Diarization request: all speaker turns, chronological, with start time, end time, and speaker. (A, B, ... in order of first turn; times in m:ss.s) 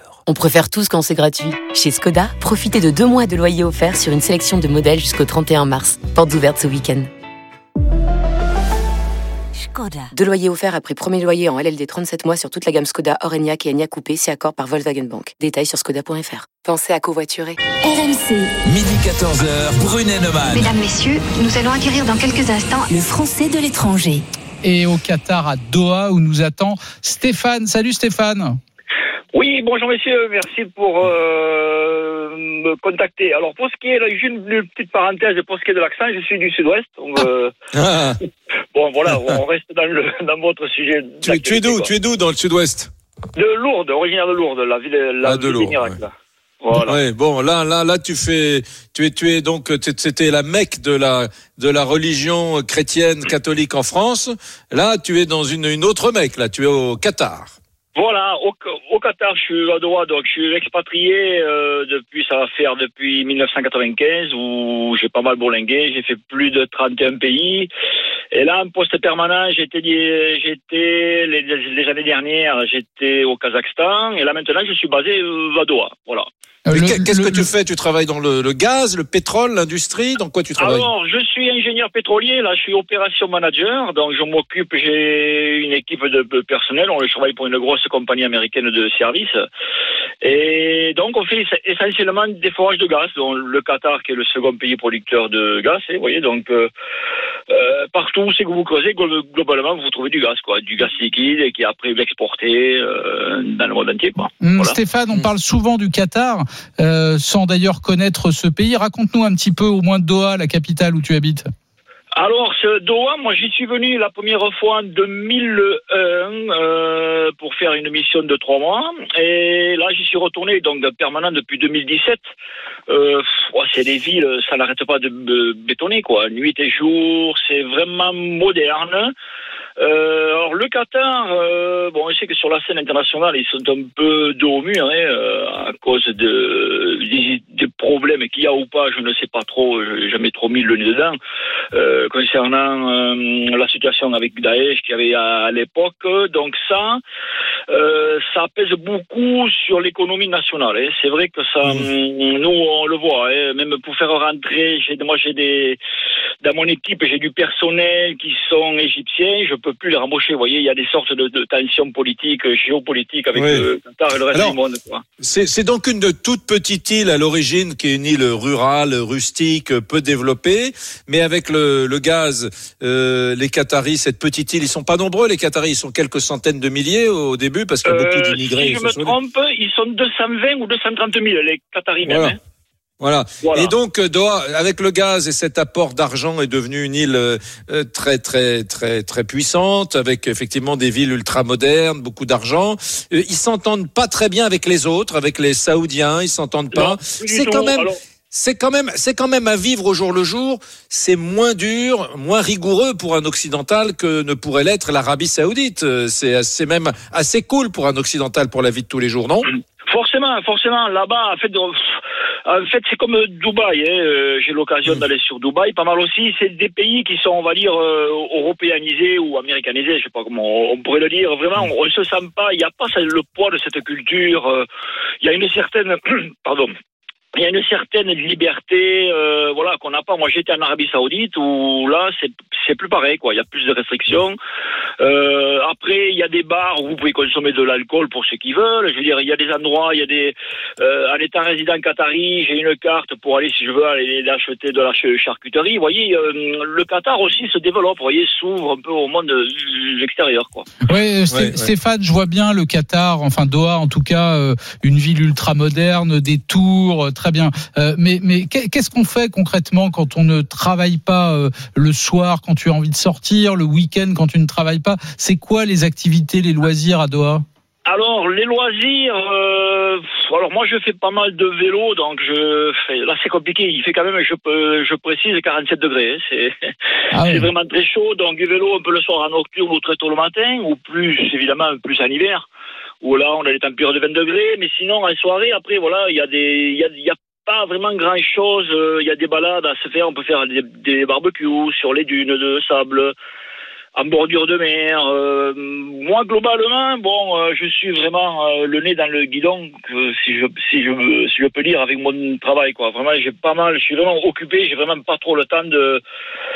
0:00.3-0:07.1 A
0:09.6-0:10.1 B
0:10.1-0:17.6 A
0:17.8-0:18.5 B
0:18.6-0:20.7 C
0:20.5-0:23.1 D
0:22.9-0:24.2 B
0:24.6-0:28.6 E
0:29.3-0:37.5 F
0:37.7-0:38.2 G
0:38.7-0:41.9 F
0:41.2-0:42.9 G
0:43.4-0:47.0 F
0:45.2-0:46.0 G
0:46.7-0:57.6 G
0:57.9-1:07.7 F
1:08.3-1:16.2 F
1:16.6-1:17.5 E
1:16.7-1:20.8 G
1:20.6-1:29.4 F
1:30.2-1:36.7 F
1:37.5-1:44.8 F
1:44.4-1:51.4 E
1:52.2-2:02.2 F
2:02.9-2:09.1 F
2:09.8-2:21.2 F
2:21.7-2:27.0 F
2:27.7-2:35.8 F
2:36.4-2:45.0 F
2:43.3-2:43.6 G
2:45.2-2:59.1 G
2:57.8-3:02.4 F
3:02.0-3:02.4 G
3:03.0-3:29.5 G
3:03.4-3:03.7 F
3:16.7-3:18.0 F
3:29.9-3:44.6 F
3:45.2-3:46.7 F
3:47.3-3:54.4 F
3:55.0-4:10.7 F
4:10.8-4:27.4 E
4:11.3-4:11.7 G
4:27.8-4:36.5 F
4:37.1-4:37.5 E
4:37.2-4:42.5 F
4:43.0-4:53.1 F
4:53.9-5:06.0 F